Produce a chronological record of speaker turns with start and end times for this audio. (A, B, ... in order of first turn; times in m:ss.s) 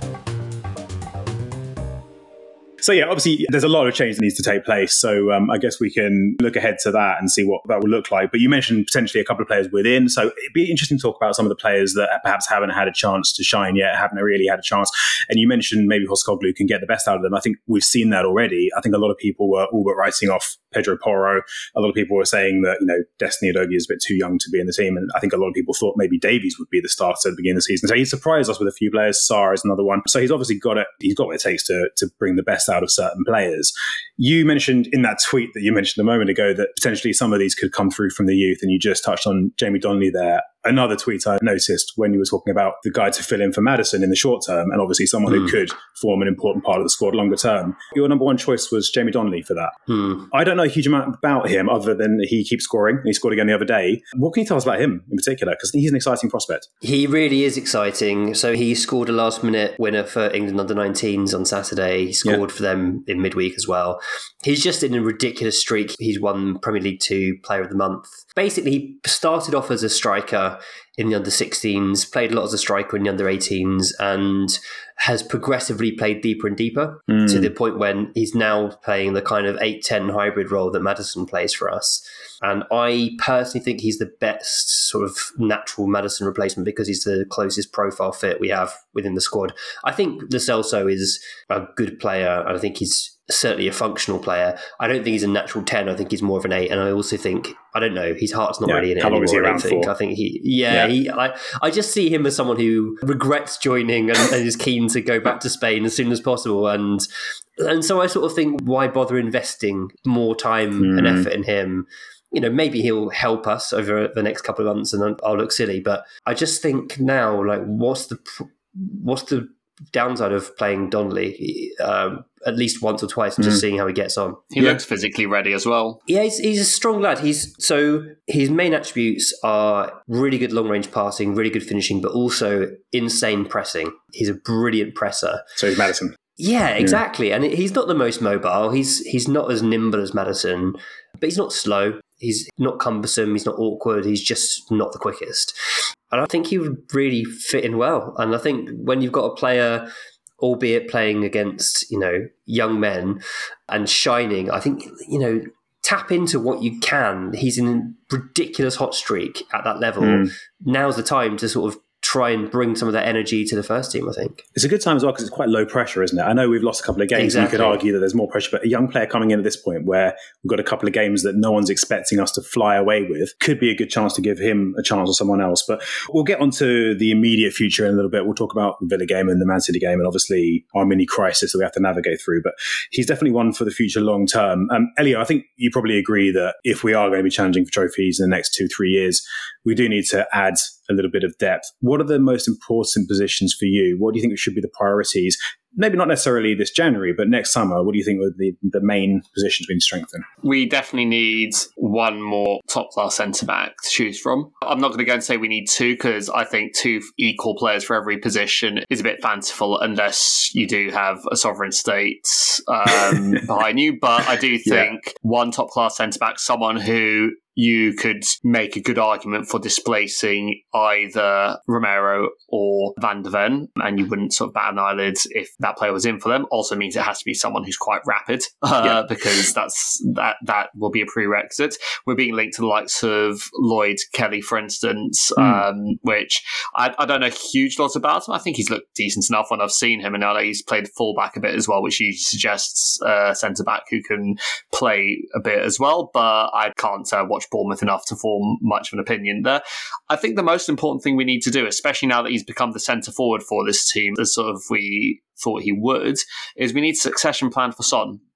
0:02.8-0:49.7 A
0:49.9-0:50.3 B
0:50.3-0:56.6 A
0:56.8-1:47.1 B
1:17.1-1:17.5 A
1:38.6-1:39.9 A
1:47.6-2:04.5 B
1:50.8-1:51.3 A
2:04.5-2:06.0 C
2:06.1-2:15.4 B
2:15.6-2:16.2 A
2:16.4-2:25.5 B
2:26.1-2:44.4 B
2:40.0-2:40.3 A
2:44.5-3:20.2 A
2:47.1-2:47.8 B
3:20.4-4:18.2 C
3:34.6-3:34.9 A
3:55.4-3:55.6 A